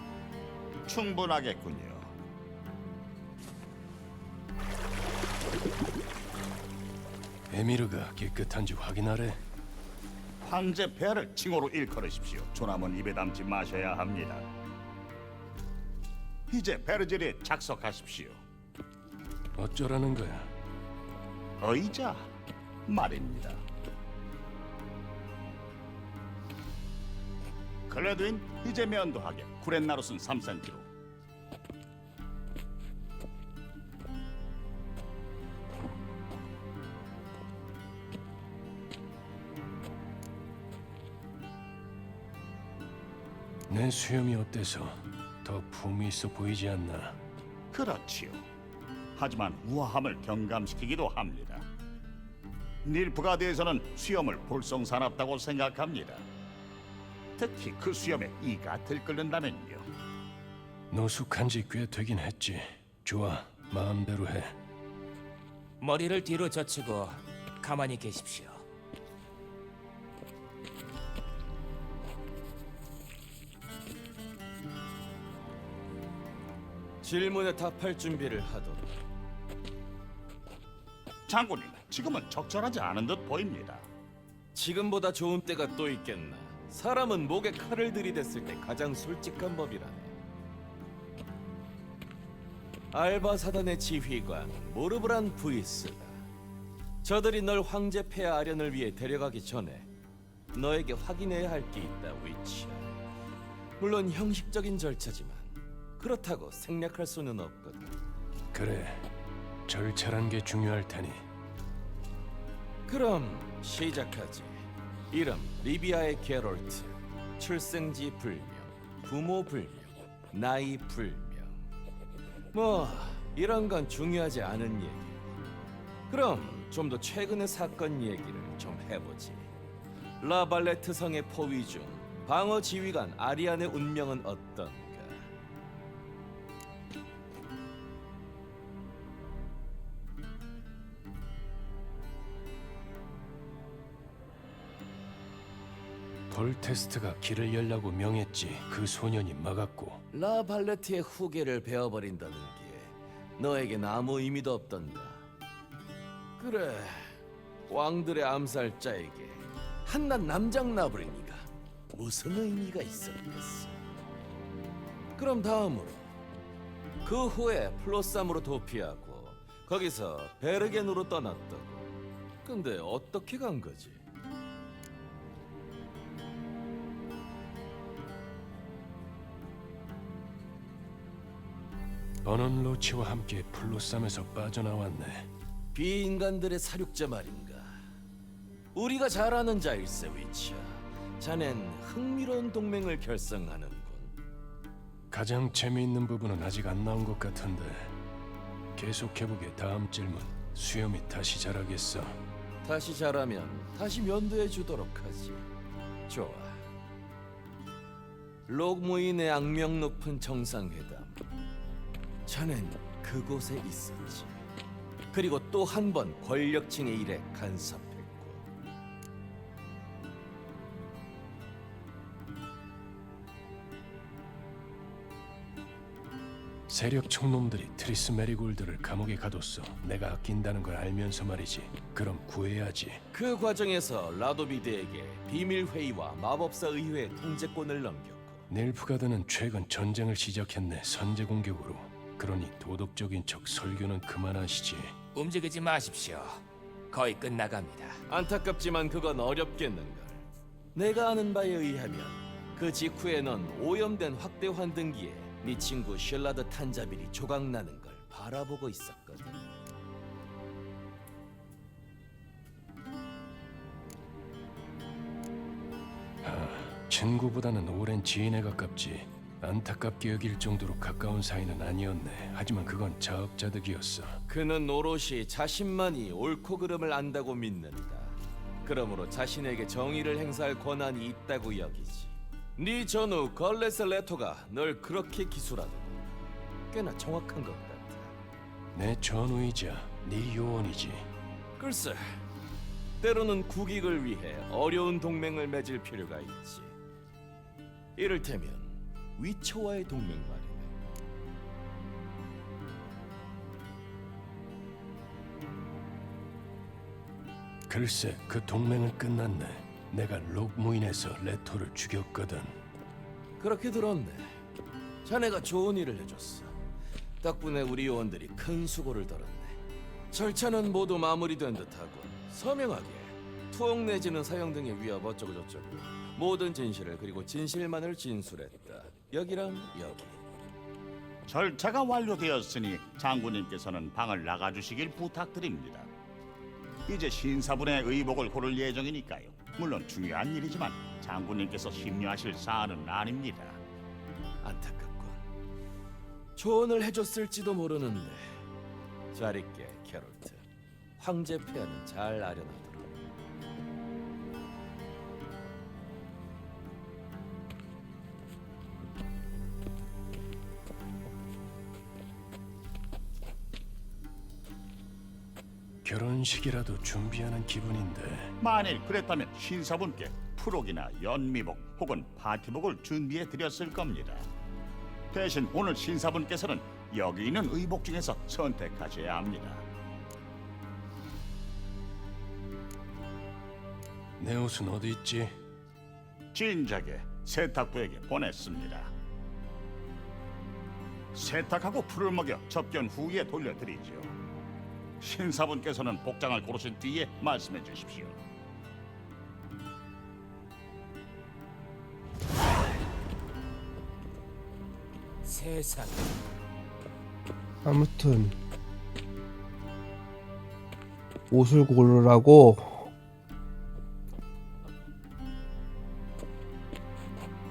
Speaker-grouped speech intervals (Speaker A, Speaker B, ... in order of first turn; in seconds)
Speaker A: 0.8-2.1, 10.4-14.5, 16.5-18.4, 21.6-22.3, 22.9-23.6, 27.9-30.9, 47.7-48.4, 49.1-51.6, 52.8-56.2, 57.4-59.9, 81.3-83.9, 331.3-335.9, 336.9-343.6, 368.4-374.3, 375.1-379.6, 386.3-388.9, 391.1-394.1, 395.0-398.2
Speaker B: 7.5-9.4, 19.6-20.5, 43.7-47.2, 60.9-64.5, 108.5-109.1, 109.7-111.2, 146.3-150.0, 182.2-185.3, 195.1-197.9, 198.7-202.2, 226.7-233.0, 238.5-245.0, 266.2-274.2, 288.7-291.1, 307.7-312.5, 365.8-368.3, 384.2-385.3
Speaker C: 65.8-68.6, 245.1-248.0, 405.2-406.1
Speaker D: 77.0-78.9, 84.5-90.2, 92.9-96.2, 97.0-99.9, 100.5-102.9, 103.8-108.0, 112.9-114.6, 115.1-121.6, 122.5-125.4, 126.1-129.5, 130.2-135.2, 150.1-155.2, 156.4-157.2, 157.7-163.7, 165.2-166.1, 167.0-171.9, 172.4-174.0, 185.7-187.8, 188.7-194.1, 202.6-205.4, 206.1-206.6, 208.5-211.2, 212.2-214.4, 215.1-218.4, 233.1-238.4, 248.1-259.4, 274.3-286.0, 286.7-288.1, 291.6-292.2, 293.0-296.7, 297.9-300.7, 313.4-314.3, 315.0-316.5, 317.2-319.6, 320.1-330.2, 344.4-345.2, 346.4-348.4, 349.1-350.4, 351.0-353.0
Speaker E: 407.6-408.3, 411.3-412.9